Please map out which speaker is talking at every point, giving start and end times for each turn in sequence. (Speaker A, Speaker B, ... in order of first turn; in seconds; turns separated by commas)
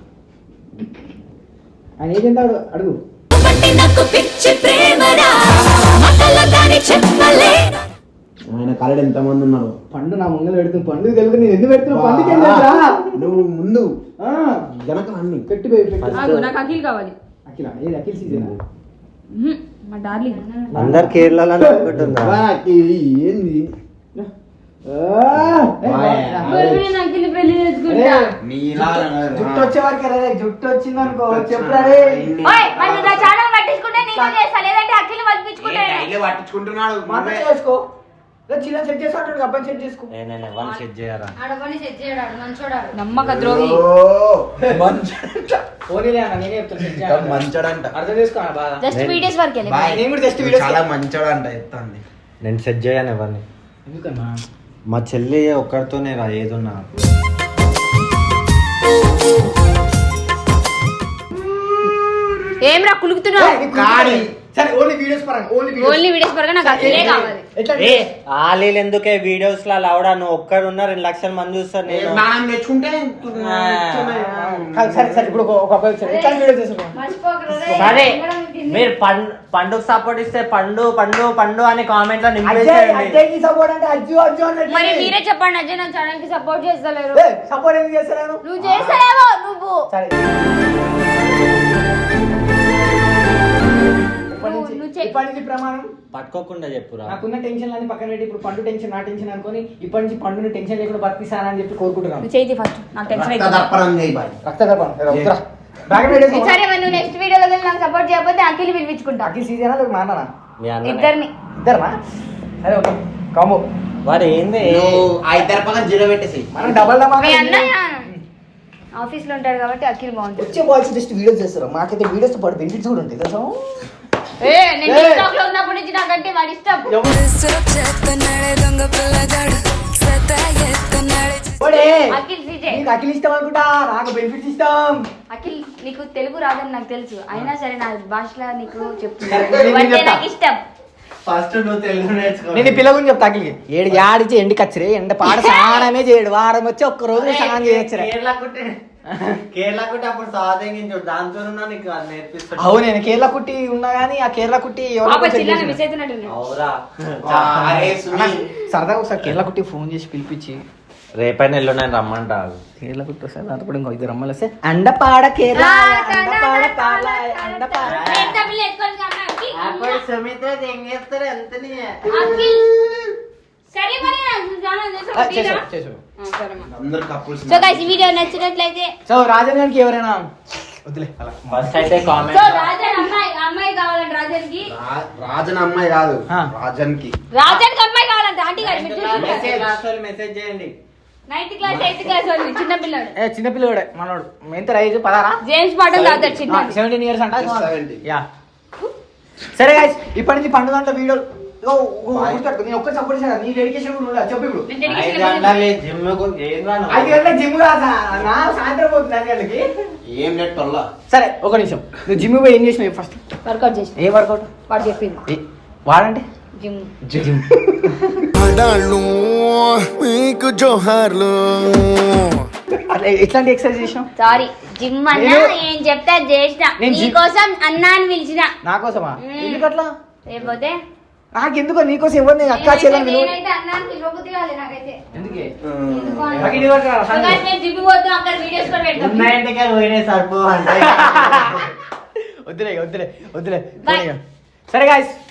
Speaker A: 2.0-3.0, Speaker B: 3.4-5.3, Speaker B: 6.0-7.6, Speaker C: 8.5-9.8, Speaker A: 9.9-13.3, Speaker C: 11.8-13.9, Speaker A: 14.2-14.7, Speaker C: 14.7-15.5, Speaker A: 15.5-16.2, Speaker D: 16.0-16.5, Speaker E: 16.1-17.1, Speaker A: 17.5-18.6, Speaker C: 18.3-18.6, Speaker E: 19.3-20.4, Speaker F: 20.3-20.7, Speaker A: 20.7-21.8, Speaker D: 20.7-22.4, Speaker C: 21.8-23.7, Speaker A: 24.9-26.6, Speaker C: 25.4-26.8, Speaker E: 26.4-28.3, Speaker A: 27.9-32.4, Speaker C: 28.4-29.7, Speaker C: 31.0-33.3, Speaker E: 32.4-36.1, Speaker C: 35.6-37.5, Speaker A: 37.1-37.9, Speaker A: 38.5-40.1, Speaker D: 40.1-41.4, Speaker F: 41.4-42.9, Speaker E: 42.9-43.8, Speaker C: 43.2-45.0, Speaker A: 44.6-48.8, Speaker C: 46.9-47.9, Speaker E: 48.8-50.0, Speaker D: 48.9-49.3, Speaker C: 49.6-52.0, Speaker A: 49.9-50.8, Speaker D: 52.4-53.4, Speaker A: 53.9-54.4, Speaker D: 54.9-56.9, Speaker E: 62.6-63.6, Speaker A: 63.4-66.1, Speaker C: 63.7-64.3, Speaker E: 65.8-67.4, Speaker A: 66.6-68.1, Speaker C: 66.9-67.2, Speaker D: 67.8-72.2, Speaker C: 71.8-75.4, Speaker D: 73.4-74.3, Speaker A: 74.3-77.0, Speaker F: 76.0-78.9, Speaker A: 77.7-77.9, Speaker D: 77.7-83.2, Speaker A: 82.4-85.2, Speaker E: 84.7-87.2, Speaker A: 87.1-88.4, Speaker E: 88.4-89.9, Speaker C: 88.6-89.0, Speaker A: 94.3-95.9, Speaker E: 94.3-95.1, Speaker D: 96.1-97.2, Speaker A: 97.1-102.3, Speaker E: 102.2-103.7, Speaker C: 103.1-104.4, Speaker A: 104.5-106.7, Speaker E: 105.9-109.3, Speaker A: 109.2-110.3, Speaker D: 110.6-111.1, Speaker E: 110.8-111.3, Speaker A: 111.6-112.0, Speaker A: 112.6-113.6, Speaker D: 114.1-115.1, Speaker C: 114.6-116.8, Speaker A: 116.5-118.2, Speaker E: 117.1-118.1, Speaker E: 119.0-120.6, Speaker A: 120.4-123.7, Speaker E: 124.4-132.8, Speaker A: 124.8-125.3, Speaker A: 126.9-127.2, Speaker A: 131.6-132.2, Speaker A: 132.7-135.1, Speaker E: 135.3-140.6, Speaker A: 139.2-140.2, Speaker D: 141.3-142.8, Speaker A: 142.5-148.1, Speaker E: 145.2-145.9, Speaker D: 147.1-148.8, Speaker A: 149.1-149.4, Speaker D: 149.5-152.8, Speaker A: 152.6-155.8, Speaker E: 155.1-156.3, Speaker D: 156.3-157.4, Speaker C: 157.2-158.5, Speaker A: 157.3-160.6, Speaker D: 161.2-162.6, Speaker A: 162.8-168.0, Speaker E: 165.5-167.3, Speaker F: 165.6-168.2, Speaker D: 167.8-168.4, Speaker E: 167.8-170.0, Speaker D: 169.5-172.1, Speaker E: 172.1-172.7, Speaker C: 172.2-173.1, Speaker E: 173.7-175.7, Speaker A: 175.1-176.0, Speaker E: 176.2-176.7, Speaker C: 176.7-178.1, Speaker E: 177.5-178.9, Speaker A: 179.1-180.3, Speaker A: 180.9-181.8, Speaker D: 181.5-182.7, Speaker E: 182.3-184.7, Speaker C: 184.7-187.1, Speaker E: 187.3-189.6, Speaker D: 188.6-190.7, Speaker C: 189.1-189.7, Speaker E: 191.3-193.2, Speaker A: 193.2-195.4, Speaker E: 195.4-196.8, Speaker C: 195.9-196.3, Speaker A: 196.5-198.3, Speaker C: 197.3-198.0, Speaker A: 199.5-204.7, Speaker C: 202.1-202.4, Speaker E: 204.7-205.7, Speaker D: 204.9-207.3, Speaker A: 206.9-209.7, Speaker C: 210.1-210.9, Speaker A: 211.1-213.2, Speaker E: 213.4-214.0, Speaker A: 214.0-214.5, Speaker E: 214.7-215.2, Speaker A: 215.3-216.3, Speaker E: 216.6-216.9, Speaker A: 217.0-218.3, Speaker G: 218.3-222.3, Speaker A: 222.8-224.1, Speaker E: 224.2-228.5, Speaker A: 225.1-225.6, Speaker A: 226.8-227.2, Speaker A: 228.6-229.9, Speaker E: 229.2-229.7, Speaker E: 230.3-230.8, Speaker A: 231.3-233.4, Speaker F: 232.5-235.0, Speaker E: 232.6-233.3, Speaker A: 235.2-235.5, Speaker C: 235.6-236.6, Speaker F: 235.9-236.7, Speaker A: 236.4-237.4, Speaker E: 237.1-239.3, Speaker D: 238.9-241.7, Speaker A: 240.8-241.7, Speaker A: 242.5-245.2, Speaker E: 243.8-244.1